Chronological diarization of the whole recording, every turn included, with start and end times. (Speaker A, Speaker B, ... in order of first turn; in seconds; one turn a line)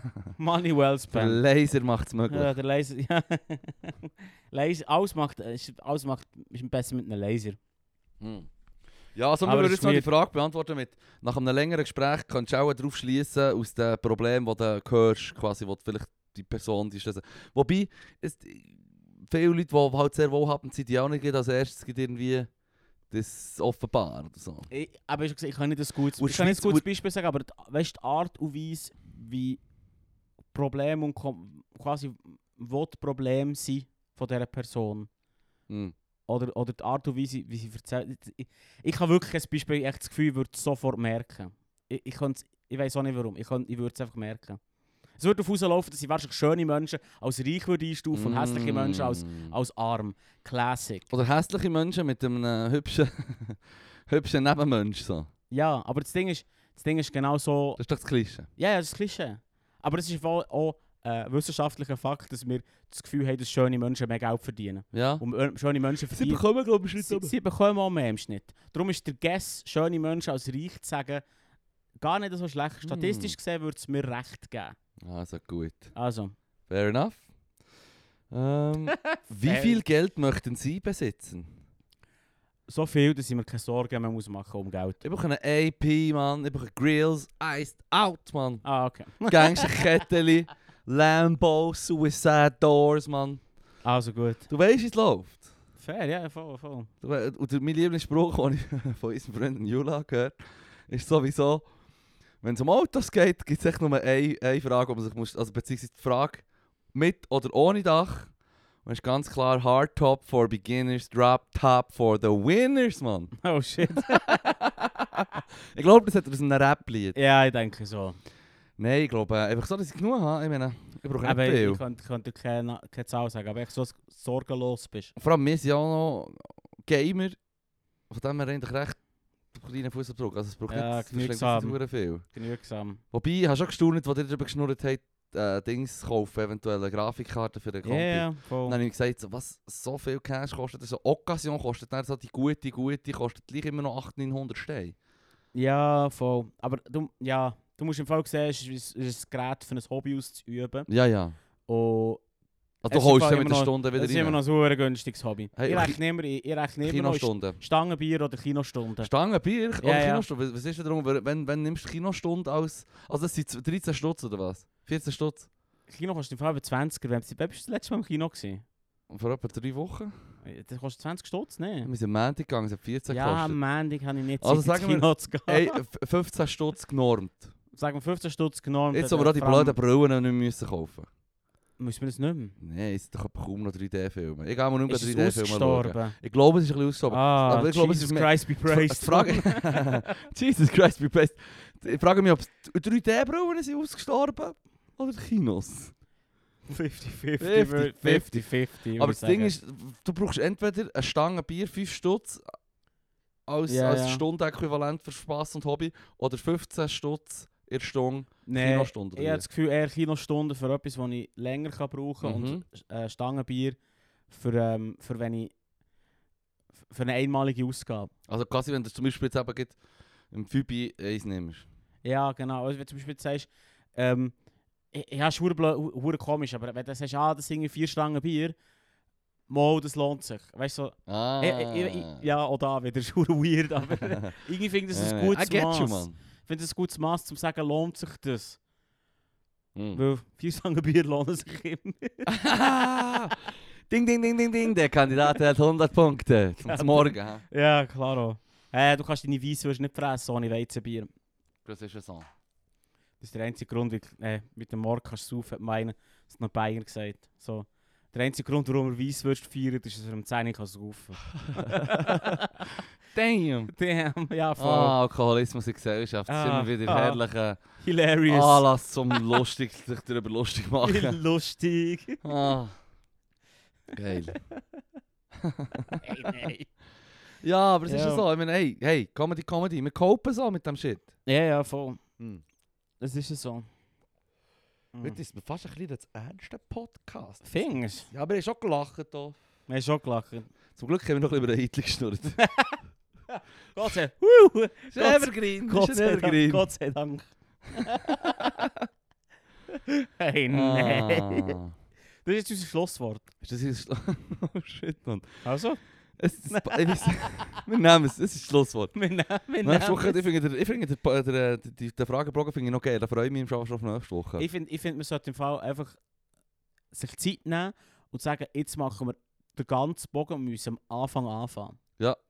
Speaker A: 0.4-1.4
Speaker B: 1.1-2.5
Speaker A: 2.3-7.6
Speaker B: 8.2-8.5
Speaker B: 9.1-22.5
Speaker A: 9.4-10.1
Speaker B: 23.1-24.7
Speaker A: 24.7-29.6
Speaker B: 26.2-26.8
Speaker A: 30.5-35.1
Speaker B: 35.7-35.9
Speaker A: 36.3-44.6
Speaker A: 45.2-51.1
Speaker B: 48.1-49.5
Speaker B: 51.1-55.3
Speaker A: 55.5-57.8
Speaker B: 57.8-58.5
Speaker A: 58.6-66.4
Speaker B: 64.9-65.2
Speaker B: 66.1-67.3
Speaker A: 67.0-71.2
Speaker A: 72.0-74.7
Speaker B: 72.8-73.3
Speaker B: 75.0-75.9
Speaker A: 75.9-76.3
Speaker B: 76.7-77.2
Speaker B: 78.3-81.5
Speaker A: 79.4-79.8
Speaker A: 82.7-85.0
Speaker B: 85.0-88.6
Speaker A: 88.6-89.9
Speaker B: 89.2-93.4
Speaker A: 93.8-94.5
Speaker B: 94.5-95.5
Speaker A: 95.8-96.9
Speaker B: 97.0-100.4
Speaker B: 100.9-101.6
Speaker B: 102.4-108.3
Speaker B: 108.8-113.3
Speaker A: 113.4-114.5
Speaker B: 113.9-117.2
Speaker A: 117.1-118.2
Speaker B: 118.8-121.8
Speaker A: 121.2-125.1
Speaker B: 125.2-127.4
Speaker B: 128.1-129.0
Speaker B: 129.5-132.2
Speaker A: 130.7-133.0
Speaker B: 133.1-144.9
Speaker A: 137.8-138.8
Speaker A: 145.5-150.9
Speaker B: 150.9-151.3
Speaker A: 151.7-152.2
Speaker B: 152.8-154.4
Speaker A: 152.9-159.1
Speaker B: 155.6-156.0
Speaker B: 156.8-157.6
Speaker B: 159.0-165.5
Speaker A: 159.8-160.2
Speaker A: 165.9-168.6
Speaker B: 169.1-170.1
Speaker A: 170.4-171.9
Speaker B: 171.8-173.6
Speaker A: 173.1-175.8
Speaker B: 174.4-177.5
Speaker A: 177.7-179.8
Speaker B: 178.9-181.1
Speaker A: 181.8-182.6
Speaker B: 182.6-195.9
Speaker A: 184.9-186.2
Speaker A: 187.1-190.1
Speaker A: 196.7-199.5
Speaker B: 197.4-202.4
Speaker B: 203.5-209.4
Speaker A: 203.7-204.2
Speaker A: 208.4-213.8
Speaker B: 212.2-212.6
Speaker A: 214.3-215.5
Speaker A: 216.8-218.1
Speaker B: 218.3-219.8
Speaker B: 220.3-221.7
Speaker A: 222.0-224.3
Speaker A: 224.9-228.6
Speaker A: 229.5-238.6
Speaker B: 231.1-232.2
Speaker B: 234.1-234.4
Speaker B: 234.9-236.2
Speaker A: 239.9-242.3
Speaker B: 242.2-247.4
Speaker A: 246.6-251.1
Speaker B: 251.6-252.3
Speaker A: 253.2-262.6
Speaker B: 261.4-262.4
Speaker B: 263.1-263.7
Speaker A: 263.7-265.0
Speaker B: 264.6-267.6
Speaker A: 266.3-267.2
Speaker A: 267.8-269.4
Speaker B: 268.3-271.2
Speaker A: 270.8-272.2
Speaker B: 272.2-272.8
Speaker B: 273.9-274.4
Speaker A: 274.3-274.6
Speaker B: 275.4-276.3
Speaker A: 276.0-276.7
Speaker B: 277.4-281.1
Speaker A: 277.9-278.2
Speaker A: 281.2-282.0
Speaker A: 283.0-283.7
Speaker A: 284.9-285.2
Speaker B: 285.0-287.4
Speaker A: 287.4-288.1
Speaker B: 288.1-289.4
Speaker A: 289.7-290.5
Speaker B: 290.8-292.4
Speaker A: 292.4-292.8
Speaker A: 293.3-298.7
Speaker B: 294.9-296.7
Speaker B: 298.1-298.5
Speaker A: 299.7-301.6
Speaker B: 300.5-301.7
Speaker A: 302.2-303.3
Speaker B: 303.4-305.4
Speaker A: 305.4-305.8
Speaker B: 306.2-308.9
Speaker A: 306.5-307.4
Speaker A: 308.9-310.3
Speaker B: 309.6-314.4
Speaker A: 314.4-316.0
Speaker A: 316.9-321.8